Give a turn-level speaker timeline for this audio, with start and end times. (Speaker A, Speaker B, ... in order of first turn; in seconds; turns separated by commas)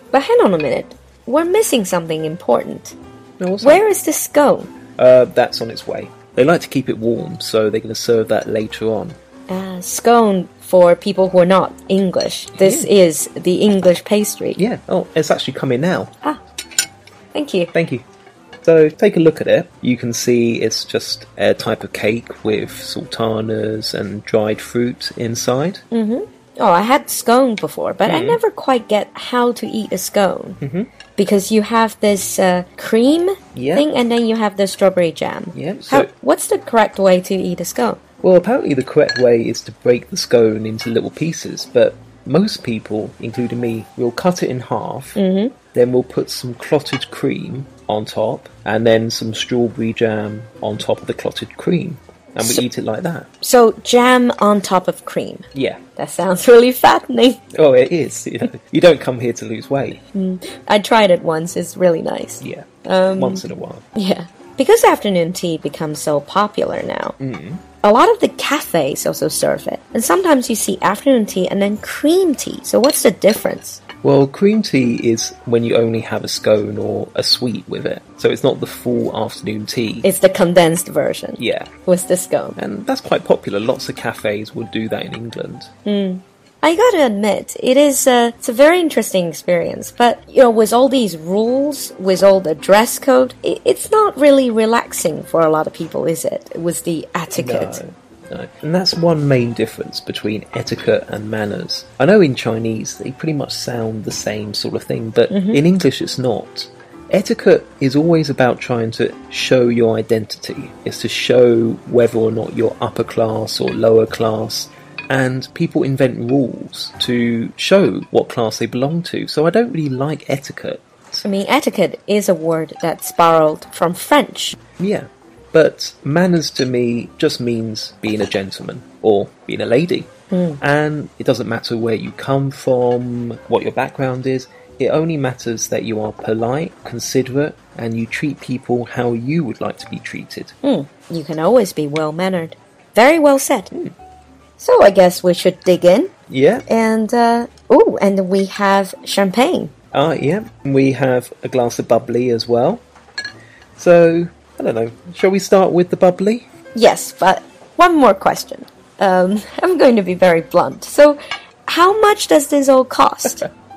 Speaker A: 0.1-3.0, Speaker B: 3.4-3.8, Speaker A: 3.6-4.7, Speaker B: 5.0-9.2, Speaker A: 9.5-14.6, Speaker B: 12.6-12.9, Speaker B: 14.6-16.1, Speaker A: 17.3-17.7, Speaker B: 17.7-18.0, Speaker B: 18.6-25.8, Speaker A: 25.9-30.6, Speaker B: 28.1-28.4, Speaker B: 30.6-30.9, Speaker A: 31.1-38.0, Speaker B: 33.5-33.9, Speaker B: 35.5-36.1, Speaker B: 38.2-45.2, Speaker A: 45.1-45.5, Speaker B: 45.7-53.3, Speaker A: 53.4-57.4, Speaker B: 55.5-55.8, Speaker B: 57.5-60.0, Speaker A: 60.1-63.4, Speaker B: 62.4-63.8, Speaker A: 63.9-67.2, Speaker B: 67.2-67.6, Speaker A: 67.8-73.8, Speaker B: 74.0-80.1, Speaker A: 80.0-82.6, Speaker B: 81.4-81.7, Speaker B: 82.6-85.7, Speaker A: 85.8-97.8, Speaker B: 97.3-121.2, Speaker A: 105.3-105.6, Speaker A: 121.2-124.5, Speaker B: 124.8-130.1, Speaker A: 130.3-130.6, Speaker B: 130.6-140.5, Speaker A: 140.6-143.7, Speaker A: 144.6-146.1, Speaker B: 146.3-146.6, Speaker A: 146.7-149.7, Speaker B: 149.9-152.8, Speaker B: 153.8-156.5, Speaker A: 156.7-163.5